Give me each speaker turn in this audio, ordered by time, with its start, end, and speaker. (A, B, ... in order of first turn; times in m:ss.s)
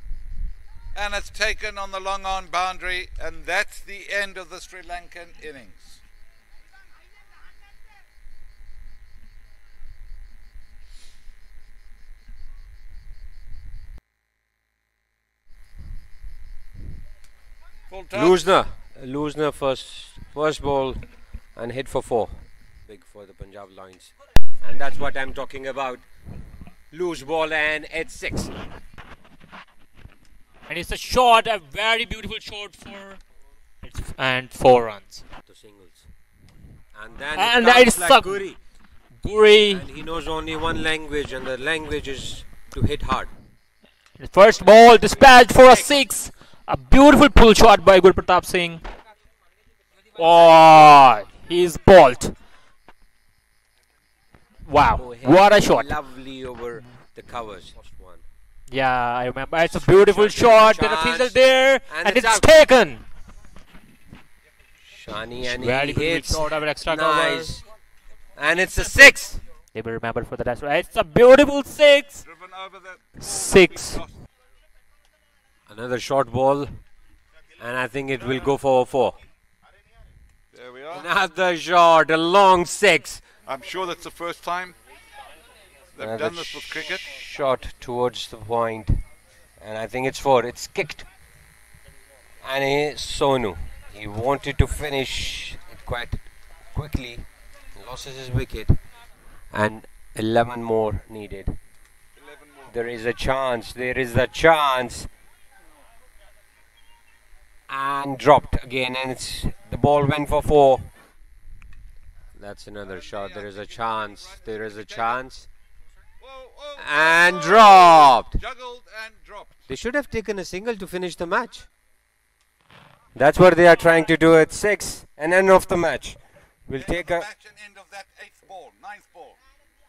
0:00.9-0:06.0 A
0:17.9-0:18.5 A
0:18.1-0:26.0 B
0:26.9-0:28.6 B
0:30.7-0:33.2 C
0:33.8-0:35.2 C
0:35.4-0:36.1 B
0:36.9-0:38.6 B
0:37.3-0:38.4 C
0:39.2-0:39.8 C
0:39.7-0:43.3 B
0:44.2-0:48.8 C
0:50.1-0:52.3 C
0:54.6-0:55.9 C
0:54.9-0:58.2 B
0:58.7-1:03.0 C
0:59.6-1:02.5 B
1:04.8-1:07.6 B
1:05.4-1:07.5 C
1:08.4-1:09.4 B
1:09.7-1:12.2 C
1:12.2-1:14.1 A
1:13.2-1:14.0 C
1:15.7-1:16.8 B
1:17.6-1:19.2 B
1:20.5-1:21.1 A
1:20.9-1:23.2 B
1:23.4-1:24.8 A
1:25.9-1:27.0 A
1:26.0-1:29.0 B
1:29.6-1:31.1 B
1:32.4-1:38.8 B
1:39.5-1:41.6 B
1:42.2-1:42.7 A
1:42.7-1:45.1 B
1:47.7-1:50.9 B
1:52.4-1:55.5 B
1:52.8-1:55.2 A
1:56.2-1:59.6 A
1:56.8-1:58.4 B
1:59.7-2:01.7 B
2:03.1-2:07.3 B
2:06.7-2:09.4 A